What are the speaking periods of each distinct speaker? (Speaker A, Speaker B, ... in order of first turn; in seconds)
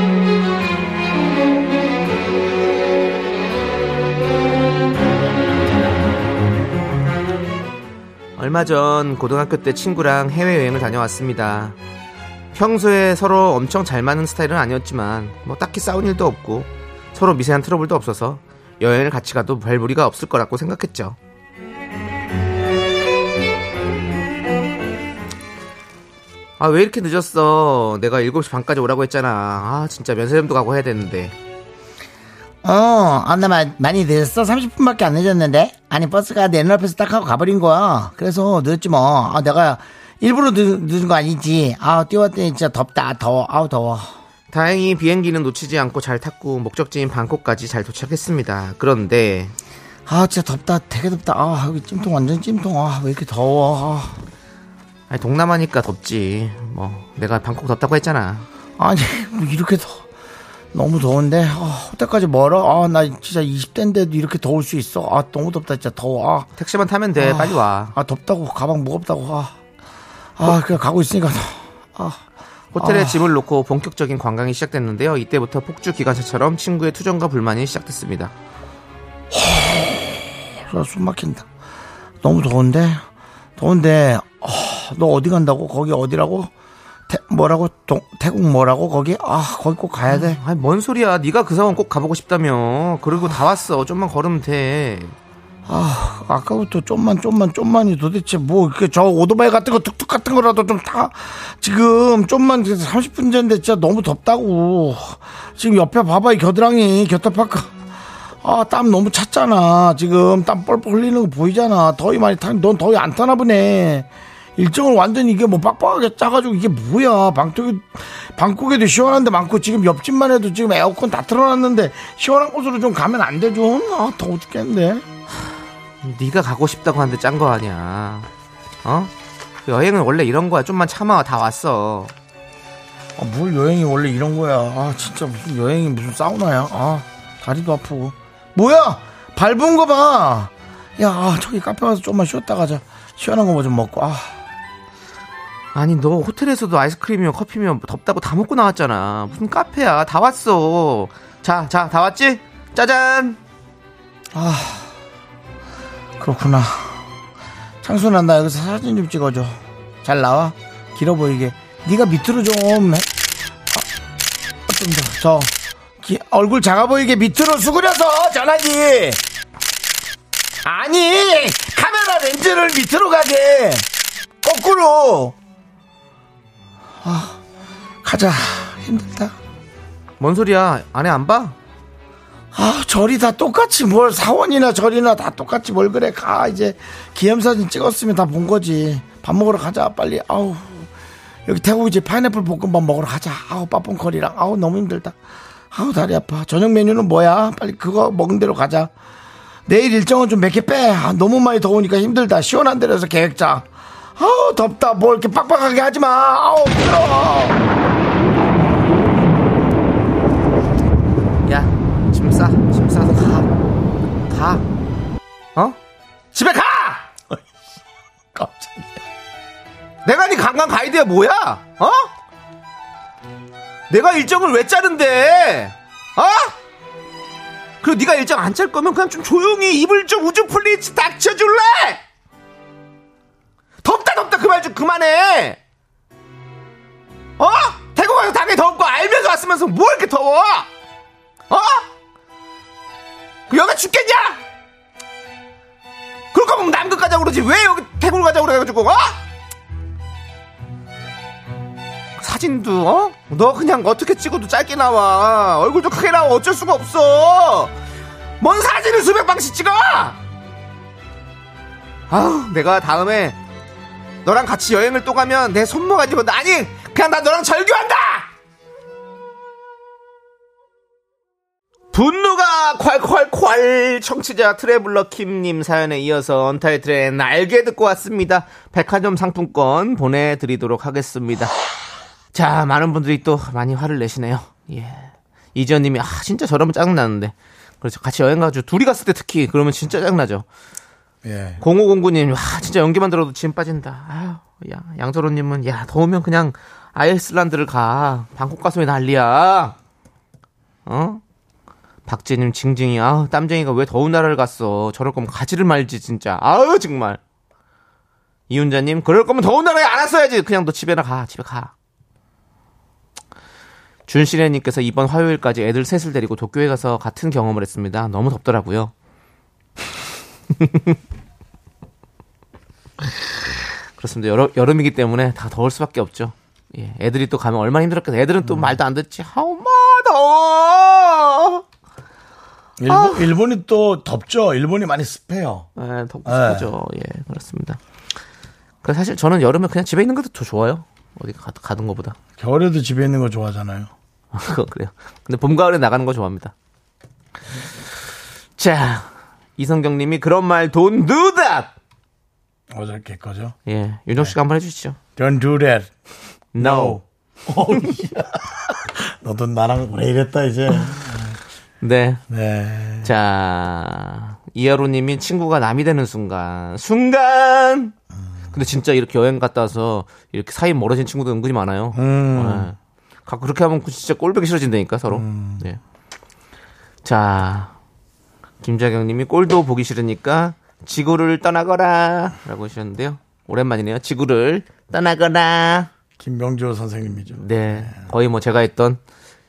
Speaker A: 8.4-11.8, 12.5-21.2, 26.6-31.3, 44.5-49.5, 55.1-58.5, 66.6-68.0, 72.8-78.3, 90.1-95.2, 126.0-128.3, 128.8-129.1, 129.7-132.1, 145.7-153.4, 180.2-181.6, 211.5-213.5, 214.3-214.7, 216.3-217.1, 220.1-222.1, 223.9-226.5, 227.8-232.0, 233.8-235.6, 237.4-240.7, 241.5-241.9, 243.5-244.4, 246.3-249.2, 252.2-257.7, 258.4-260.2, 262.1-263.4, 264.2-268.3, 271.9-281.5, 282.3-290.4, 291.6-299.8, 300.9-301.2, 302.1-307.2, 308.5-311.7, 314.1-318.9, 320.6-320.9, 323.0-323.3, 324.0-331.6, 332.9-333.3, 335.8-337.8, 338.8-342.2, 344.3-346.5, 348.6-351.7, 353.7-355.0, 356.6-357.0, 361.8-362.2, 363.0-367.9, 368.5-375.8, 377.0-377.7, 378.6-385.9, 387.3-389.0
Speaker B: 32.6-44.1, 50.1-54.2, 58.8-60.0, 60.7-66.5, 67.2-69.5, 70.4-72.2, 72.8-73.2, 79.3-81.5, 82.2-83.0, 83.6-86.5, 87.1-90.4, 95.7-107.7, 108.4-125.0, 133.2-144.4, 154.3-154.9, 156.2-157.0, 157.8-163.1, 164.7-169.2, 170.6-173.9, 174.4-175.4, 177.0-177.4, 178.0-179.4, 182.5-190.9, 191.5-195.2, 195.7-198.9, 199.7-207.6, 218.3-219.0, 291.2-291.6, 328.4-328.8, 332.8-335.7, 336.3-336.7, 342.4-343.9, 352.7-353.6, 355.2-355.9, 356.6-361.4, 362.3-363.1, 371.9-372.7, 375.1-375.6, 386.2-387.9